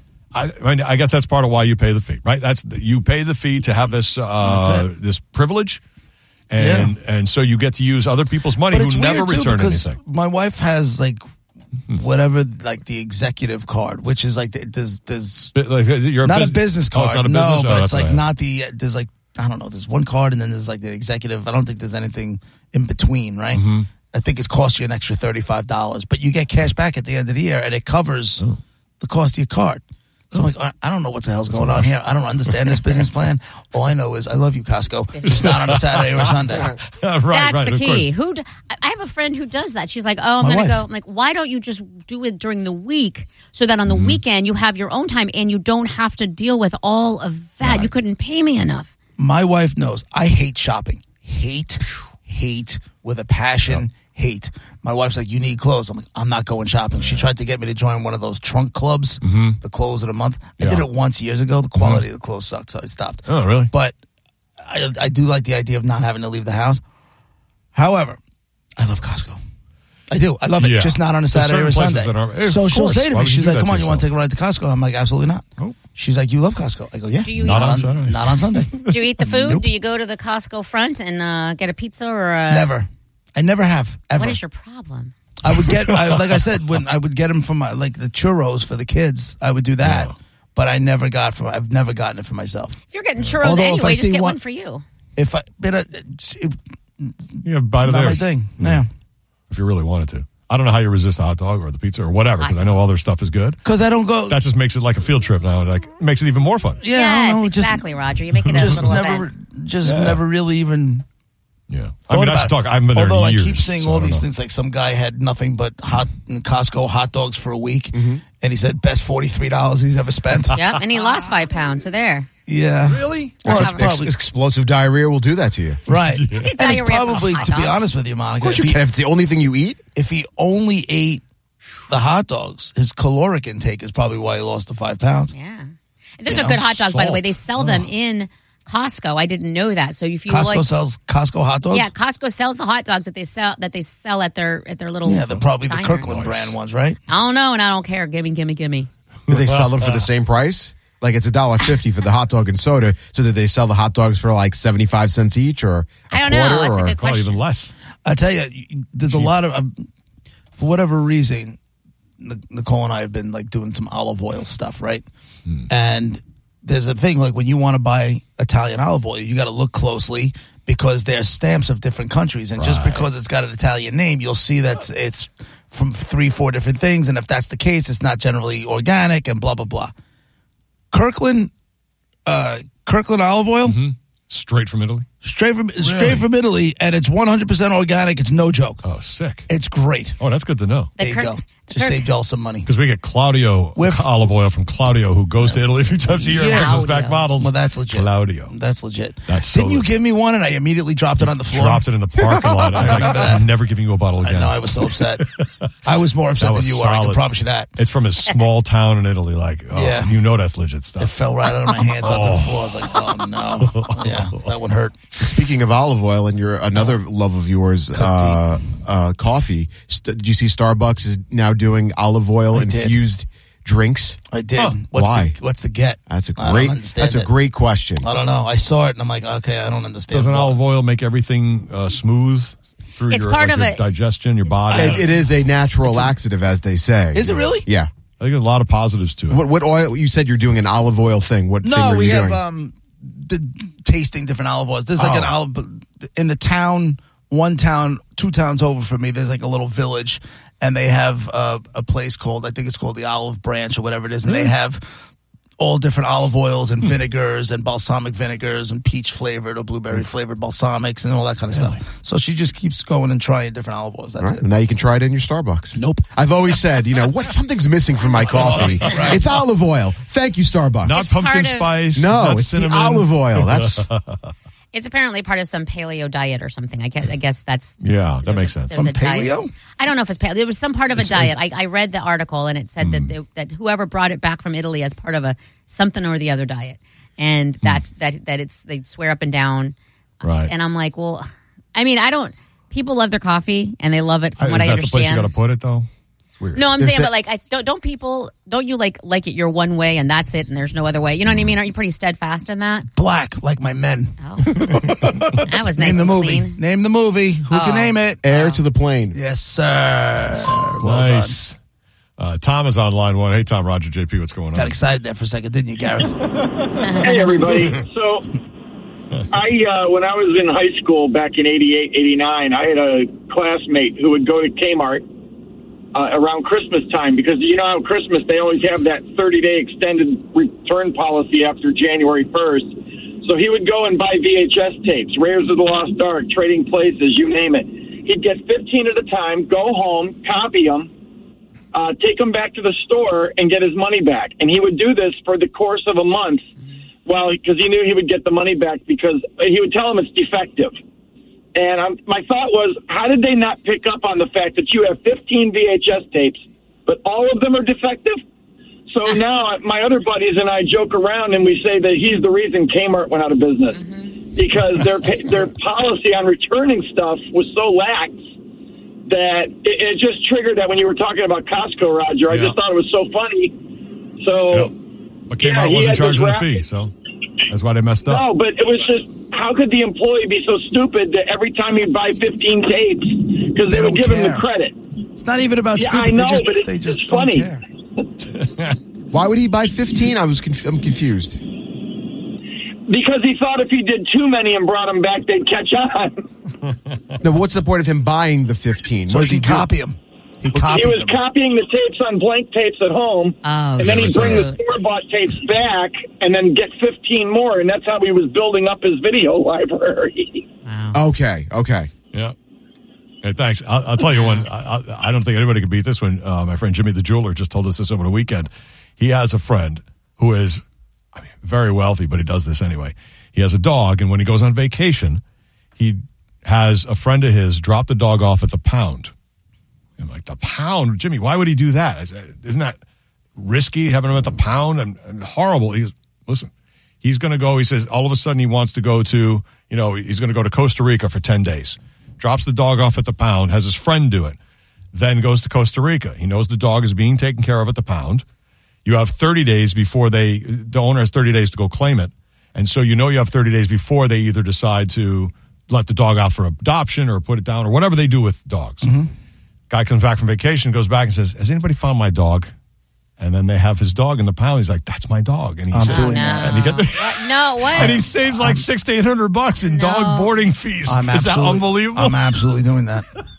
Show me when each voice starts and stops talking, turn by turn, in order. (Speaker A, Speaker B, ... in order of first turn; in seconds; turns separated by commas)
Speaker A: 0.3-5.8, Speaker B: 4.4-4.9, Speaker A: 6.5-10.0, Speaker B: 6.6-6.9, Speaker B: 8.7-11.2, Speaker B: 11.9-15.5, Speaker A: 15.5-18.3, Speaker B: 16.2-28.4, Speaker A: 23.5-23.9, Speaker B: 29.0-36.7, Speaker A: 31.5-31.9, Speaker A: 32.5-32.8, Speaker C: 35.1-35.5, Speaker A: 35.3-38.1, Speaker C: 37.3-48.9, Speaker B: 40.4-40.8, Speaker A: 43.9-44.2, Speaker A: 47.6-47.9, Speaker B: 49.2-63.9, Speaker A: 56.9-57.3, Speaker A: 59.2-59.6, Speaker A: 60.6-60.9, Speaker A: 61.7-62.0, Speaker A: 63.3-63.7, Speaker B: 64.6-66.8, Speaker B: 67.7-68.2, Speaker B: 68.8-69.4, Speaker B: 70.1-78.7, Speaker A: 70.6-74.1, Speaker C: 77.2-77.8, Speaker A: 77.3-79.3, Speaker C: 78.9-82.7, Speaker B: 79.3-79.7, Speaker B: 82.5-84.4, Speaker C: 84.2-85.1, Speaker B: 85.4-92.8, Speaker A: 85.6-86.3, Speaker A: 89.8-90.1, Speaker C: 92.9-94.8, Speaker B: 93.4-94.4, Speaker B: 95.2-98.9, Speaker A: 97.4-98.8, Speaker A: 99.5-103.6, Speaker C: 102.4-102.8, Speaker B: 103.6-104.4, Speaker A: 104.3-106.8, Speaker B: 106.8-107.8, Speaker C: 106.9-109.2, Speaker A: 108.5-108.8, Speaker B: 108.5-111.0, Speaker A: 109.8-110.2, Speaker A: 111.7-114.3, Speaker B: 112.1-120.5, Speaker D: 117.9-118.2, Speaker C: 120.5-122.3, Speaker B: 122.5-124.1, Speaker A: 122.8-123.8, Speaker D: 123.4-125.8, Speaker C: 123.4-123.8, Speaker B: 125.9-128.8, Speaker A: 125.9-126.5, Speaker C: 126.3-127.8, Speaker A: 127.1-127.5, Speaker D: 128.4-129.8, Speaker B: 129.9-131.2, Speaker B: 131.9-135.3, Speaker C: 135.3-140.6, Speaker B: 136.3-136.7, Speaker A: 136.3-137.9, Speaker B: 140.3-141.9, Speaker C: 141.7-146.1, Speaker B: 145.0-147.0, Speaker A: 145.9-146.6, Speaker C: 147.1-148.9, Speaker D: 149.3-156.9, Speaker A: 149.3-149.7, Speaker C: 156.1-157.4, Speaker A: 156.2-157.7, Speaker B: 158.0-159.8, Speaker A: 159.1-159.3, Speaker B: 160.6-161.6, Speaker B: 162.2-165.1, Speaker B: 165.7-179.9, Speaker A: 172.6-173.1, Speaker B: 180.9-181.5, Speaker B: 182.2-183.8, Speaker A: 183.6-185.1, Speaker B: 185.2-188.8, Speaker A: 185.8-186.2, Speaker A: 188.8-189.5, Speaker B: 189.5-190.2, Speaker A: 190.2-190.9, Speaker C: 191.0-192.1, Speaker B: 191.0-192.7, Speaker A: 192.6-198.5, Speaker B: 193.8-194.1, Speaker B: 196.2-201.8, Speaker C: 196.4-197.2, Speaker A: 199.3-199.9, Speaker A: 201.2-205.8, Speaker B: 202.4-203.5, Speaker B: 204.2-205.2, Speaker B: 205.8-207.7, Speaker A: 206.4-214.4, Speaker B: 209.7-210.2, Speaker B: 211.0-215.0, Speaker D: 215.2-224.2, Speaker B: 217.9-218.4, Speaker B: 222.5-222.9, Speaker B: 224.3-227.3, Speaker D: 224.9-225.4, Speaker D: 226.1-228.1, Speaker B: 228.0-230.6, Speaker A: 230.1-235.1, Speaker C: 233.1-233.8, Speaker D: 234.7-237.9, Speaker B: 235.8-236.1, Speaker B: 237.1-237.7, Speaker A: 238.2-239.4, Speaker D: 239.3-242.4, Speaker B: 241.6-254.8, Speaker A: 244.9-245.3, Speaker B: 255.6-264.4, Speaker A: 261.5-261.8, Speaker D: 264.2-271.0, Speaker B: 265.7-266.1, Speaker B: 268.2-269.2, Speaker A: 270.8-274.3, Speaker C: 270.9-271.7, Speaker D: 271.9-273.9, Speaker C: 274.7-289.8, Speaker A: 277.8-278.9, Speaker B: 278.7-279.5, Speaker A: 280.9-281.3, Speaker A: 282.8-283.1, Speaker A: 290.2-290.5, Speaker C: 290.5-295.3, Speaker A: 294.4-295.9, Speaker A: 296.4-296.7, Speaker C: 296.5-302.9, Speaker D: 296.8-297.1, Speaker B: 302.9-305.1, Speaker C: 304.2-304.5, Speaker A: 304.5-305.4, Speaker C: 305.4-306.6, Speaker B: 305.7-308.2, Speaker C: 307.5-308.6, Speaker D: 308.2-309.2, Speaker B: 309.1-311.4, Speaker A: 310.8-311.6, Speaker A: 312.2-314.8, Speaker B: 314.5-316.3, Speaker C: 316.8-317.7, Speaker E: 317.0-318.3, Speaker E: 319.3-325.1, Speaker E: 325.9-340.9, Speaker E: 341.7-346.4, Speaker E: 347.1-350.8, Speaker E: 351.5-358.2, Speaker E: 358.9-363.8, Speaker C: 363.7-364.3, Speaker E: 364.3-368.2, Speaker E: 369.1-373.6, Speaker A: 372.3-372.6, Speaker E: 374.2-374.7, Speaker A: 375.3-376.9, Speaker E: 375.4-376.6, Speaker A: 377.5-378.2, Speaker E: 378.0-384.8, Speaker B: 383.6-384.5, Speaker B: 385.2-387.6, Speaker E: 385.8-387.5, Speaker A: 388.3-388.8, Speaker D: 389.1-391.4, Speaker E: 392.9-396.2, Speaker A: 396.6-397.1, Speaker D: 397.2-399.7, Speaker B: 399.1-401.2, Speaker D: 400.5-400.8, Speaker E: 400.7-410.4, Speaker C: 403.4-404.6, Speaker A: 403.8-404.5, Speaker C: 410.6-411.0, Speaker D: 410.9-411.9, Speaker A: 413.2-420.6, Speaker C: 414.1-414.4, Speaker A: 421.1-425.2, Speaker A: 425.8-429.1, Speaker A: 430.0-432.8, Speaker A: 433.4-436.5, Speaker A: 437.0-444.4, Speaker A: 444.9-448.2, Speaker A: 448.8-458.9, Speaker B: 458.8-459.1, Speaker A: 459.7-462.5, Speaker A: 463.2-472.2, Speaker B: 465.7-466.8, Speaker C: 465.9-468.0, Speaker B: 467.7-468.6, Speaker C: 469.7-470.3, Speaker B: 470.8-473.1